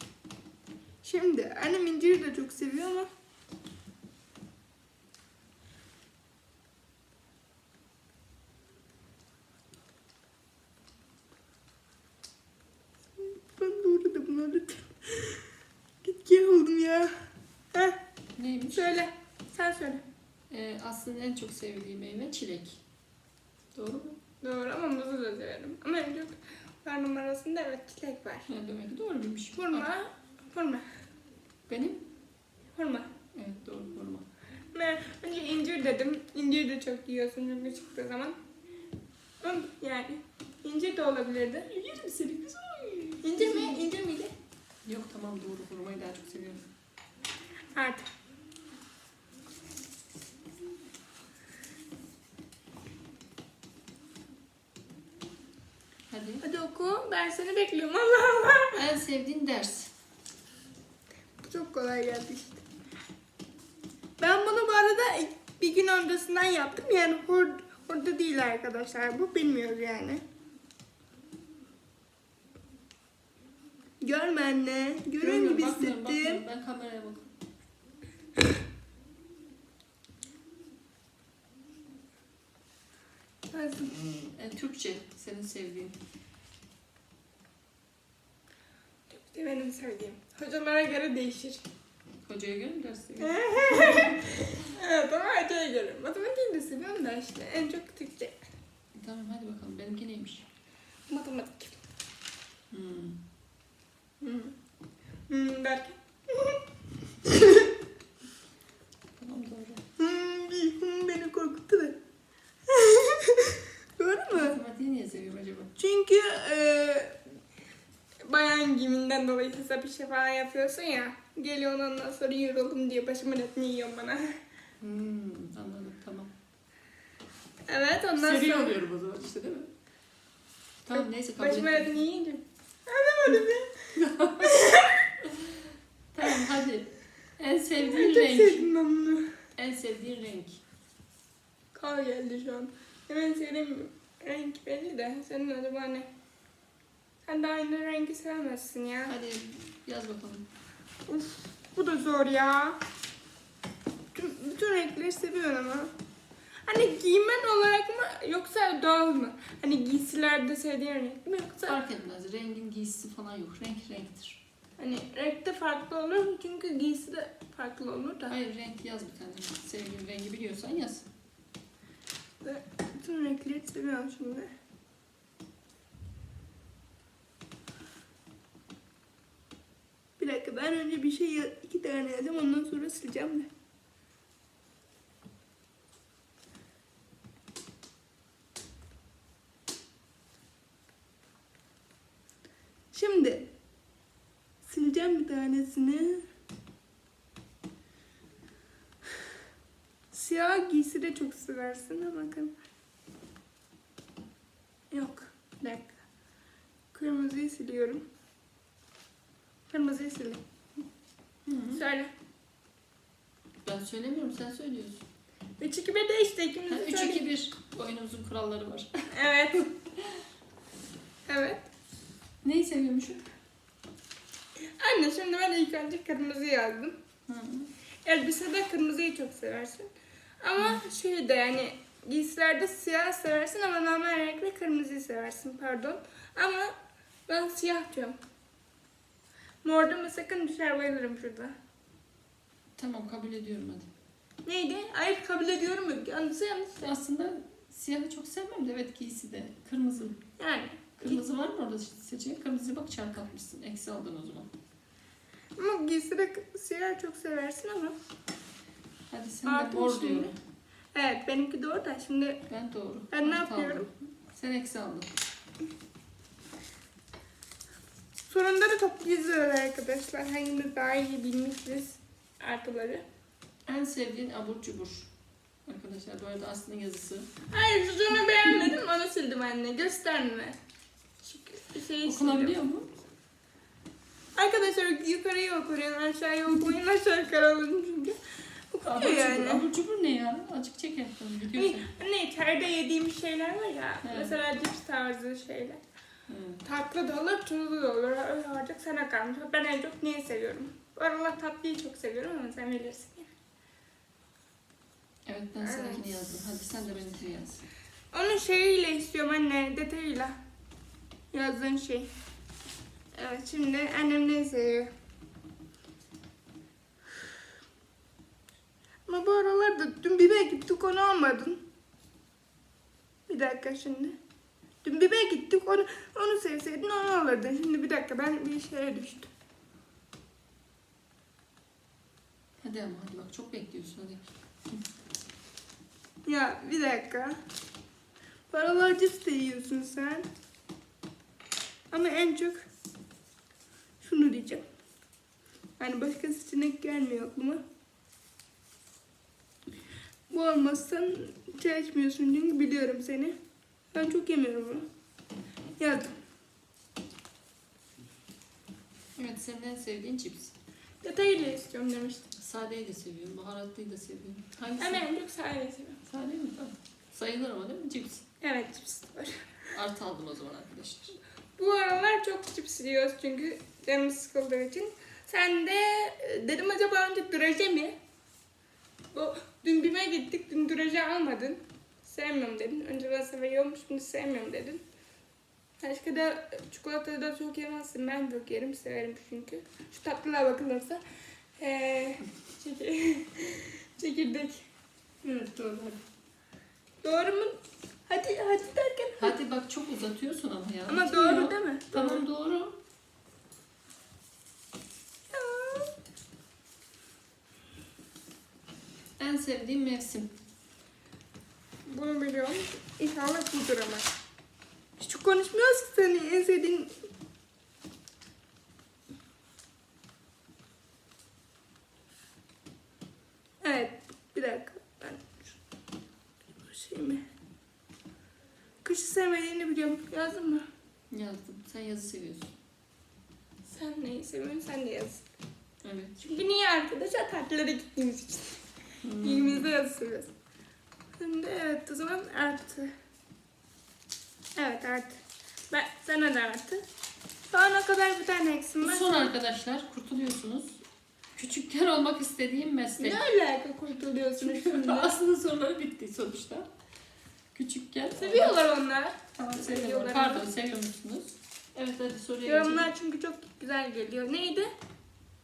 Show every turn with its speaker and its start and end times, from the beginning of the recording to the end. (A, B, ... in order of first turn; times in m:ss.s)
0:01.0-0:03.1 A
0:13.2-0:15.5 A
0:16.0-0:18.0 A
0:18.4-0:18.9 B
0:18.7-0:20.0 A
0:20.5-0:22.8 B
0:23.8-0:24.2 B
0:24.4-0:28.5 A
0:28.5-0:29.9 B
0:29.6-0:30.9 A
0:31.7-0:32.0 B
0:32.8-0:33.1 A
0:33.4-0:34.3 B
0:34.7-0:38.4 A
0:39.4-0:41.7 A
0:41.7-0:43.8 B
0:43.2-0:44.3 A
0:44.9-0:46.6 B
0:47.8-0:48.1 A
0:56.1-0:56.4 B
0:56.4-0:58.8 A
0:58.7-0:59.9 B
1:01.4-1:02.6 A
1:04.2-1:10.2 A
1:14.0-1:16.4 A
1:15.2-1:17.3 B
1:23.5-1:24.0 A
1:24.3-1:26.0 B
1:29.1-1:31.6 A
1:32.2-1:34.2 B
1:33.2-1:38.4 A
1:39.0-1:40.5 B
1:41.1-1:41.8 A
1:42.7-1:43.2 B
1:44.2-1:44.5 A
1:45.3-1:46.6 A
1:47.2-1:47.7 A
1:49.2-1:49.8 B
1:50.0-1:52.0 A
1:52.7-1:54.6 A
1:54.3-1:55.7 B
1:55.8-1:57.3 A
1:58.2-2:04.4 A
2:04.8-2:06.3 B
2:07.7-2:08.8 A
2:08.2-2:09.7 B
2:10.8-2:12.0 B
2:10.9-2:15.0 A
2:14.0-2:18.7 B
2:17.8-2:19.3 A
2:19.6-2:20.6 B
2:21.7-2:26.1 A
2:27.3-2:29.2 A
2:29.1-2:30.5 B
2:31.1-2:32.8 A
2:34.1-2:35.9 A
2:36.7-2:41.8 A
2:41.6-2:44.4 B
2:44.8-2:48.4 A
2:48.3-2:51.1 B
2:52.4-2:54.5 A
3:00.2-3:03.5 A
3:12.9-3:13.4 A
3:14.6-3:16.2 A
3:20.1-3:22.5 A
3:24.9-3:26.0 A
3:26.9-3:28.0 A
3:29.7-3:30.4 A
3:31.5-3:31.8 B
3:31.8-3:32.1 A
3:33.6-3:35.0 B
3:35.6-3:37.3 A
3:36.7-3:39.1 B
3:39.1-3:39.7 A
3:41.3-3:41.6 A
3:42.4-3:43.2 B
3:44.8-3:47.0 A
3:47.3-3:47.7 B
3:48.0-3:49.9 A
3:50.4-3:56.7 A
3:57.3-3:58.2 A
3:59.6-4:01.6 A
4:02.8-4:03.9 B
4:04.4-4:06.9 A
4:06.8-4:10.2 B
4:10.4-4:11.2 A
4:11.0-4:14.5 B
4:15.6-4:18.0 A
4:19.1-4:20.4 B
4:19.5-4:20.3 A
4:20.9-4:22.4 A
4:22.5-4:25.1 B
4:23.1-4:23.9 A
4:28.2-4:33.0 A
4:33.7-4:35.1 B
4:35.7-4:37.3 B
4:37.5-4:40.6 A
4:41.2-4:42.6 A
4:42.0-4:42.9 B
4:44.4-4:49.7 A
4:48.8-4:51.8 B
4:51.6-4:55.8 A
4:54.0-4:54.4 B
4:56.3-4:56.6 B
4:56.6-5:03.3 A
5:05.3-5:07.6 B
5:05.6-5:06.1 A
5:08.1-5:10.4 A
5:11.3-5:12.1 A
5:13.2-5:14.9 A
5:19.1-5:21.6 A
5:23.3-5:24.2 A
5:24.8-5:29.3 A
5:32.6-5:34.8 B
5:36.3-5:37.4 A
5:38.5-5:40.3 A
5:41.9-5:42.6 A
5:44.0-5:44.6 A
5:45.8-5:47.6 A
5:50.3-5:53.4 A
5:53.9-5:54.9 A
5:55.8-5:56.1 A
5:59.2-6:00.5 B
6:01.0-6:02.3 A
6:02.3-6:05.0 B
6:04.8-6:06.0 A
6:06.1-6:08.2 B
6:08.4-6:09.5 A
6:09.7-6:11.2 B
6:11.6-6:18.0 A
6:19.1-6:24.8 A
6:25.8-6:31.0 A
6:31.6-6:34.6 A
6:35.2-6:36.0 B
6:37.0-6:39.3 A
6:39.2-6:42.8 B
6:40.9-6:42.2 A
6:45.3-6:45.9 A
6:49.2-6:50.3 B
6:51.9-6:54.1 A
6:55.0-6:57.0 A
7:03.6-7:05.5 A
7:06.6-7:07.2 A
7:08.8-7:10.7 A
7:11.1-7:12.5 B
7:13.7-7:15.2 A
7:15.8-7:16.2 B
7:16.2-7:18.6 A
7:19.0-7:19.7 B
7:19.2-7:20.3 A
7:21.2-7:22.9 A
7:24.6-7:26.8 A
7:27.5-7:29.3 A
7:28.8-7:30.8 B
7:31.4-7:33.2 B
7:33.0-7:35.1 A
7:34.4-7:36.7 B
7:37.5-7:38.6 B
7:38.2-7:40.5 A
7:39.4-7:42.9 B
7:42.5-7:44.7 A